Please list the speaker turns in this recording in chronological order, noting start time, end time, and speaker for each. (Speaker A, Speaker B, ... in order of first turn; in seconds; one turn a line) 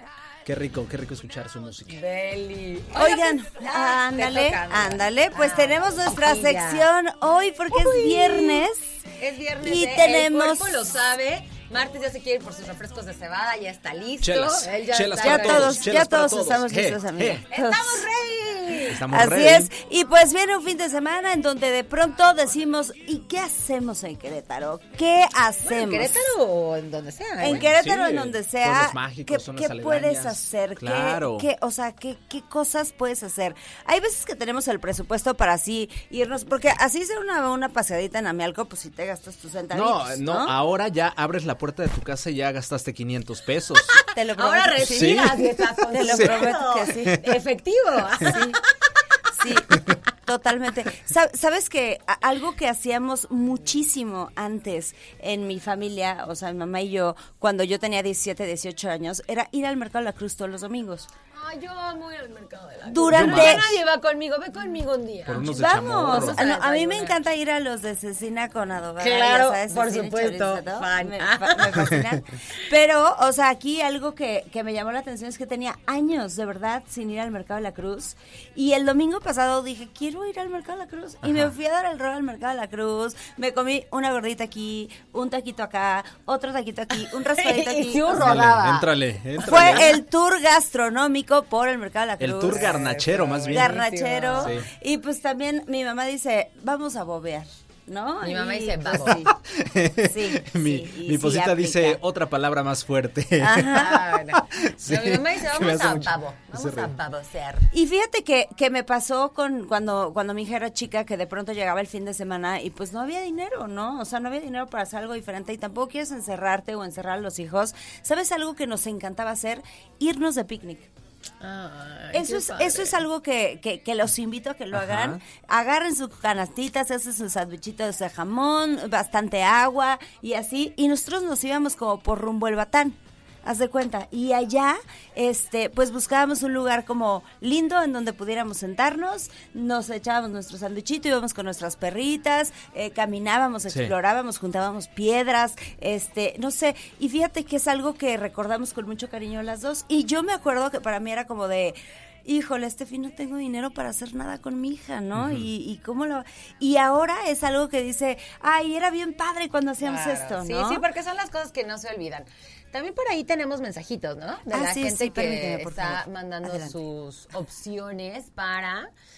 Speaker A: 0.5-2.0
Speaker B: 1.9-6.9
Speaker C: 3.0-8.9
Speaker B: 7.7-15.9
Speaker C: 9.6-10.9
Speaker A: 14.2-17.4
Speaker C: 15.2-18.1
Speaker B: 17.5-19.0
Speaker A: 18.9-19.7
Speaker C: 19.1-26.2
Speaker B: 25.6-27.7
Speaker C: 27.4-40.5
Speaker A: 27.4-31.5
Speaker A: 39.7-44.0
Speaker B: 43.9-48.6
Speaker C: 44.0-47.2
Speaker A: 44.8-46.6
Speaker C: 48.2-48.6
Speaker C: 49.4-61.1
Speaker B: 61.3-67.2
Speaker C: 62.9-63.8
Speaker A: 63.1-63.8
Speaker A: 65.2-66.5
Speaker C: 65.4-88.2
Speaker B: 69.0-72.0
Speaker A: 81.2-81.5
Speaker B: 87.2-88.9
Speaker A: 88.1-90.0
Speaker B: 89.4-89.9
Speaker C: 89.4-92.7
Speaker A: 92.2-93.8
Speaker B: 92.5-94.6
Speaker C: 93.5-99.3
Speaker A: 94.4-94.7
Speaker B: 98.2-99.2
Speaker A: 99.1-106.9
Speaker C: 100.0-102.0
Speaker C: 103.4-104.0
Speaker B: 103.7-107.7
Speaker C: 107.7-120.9
Speaker B: 121.4-123.0
Speaker C: 122.1-160.8
Speaker A: 124.7-125.2
Speaker A: 143.7-143.9
Speaker A: 155.2-155.5
Speaker B: 159.8-168.9
Speaker C: 164.5-166.7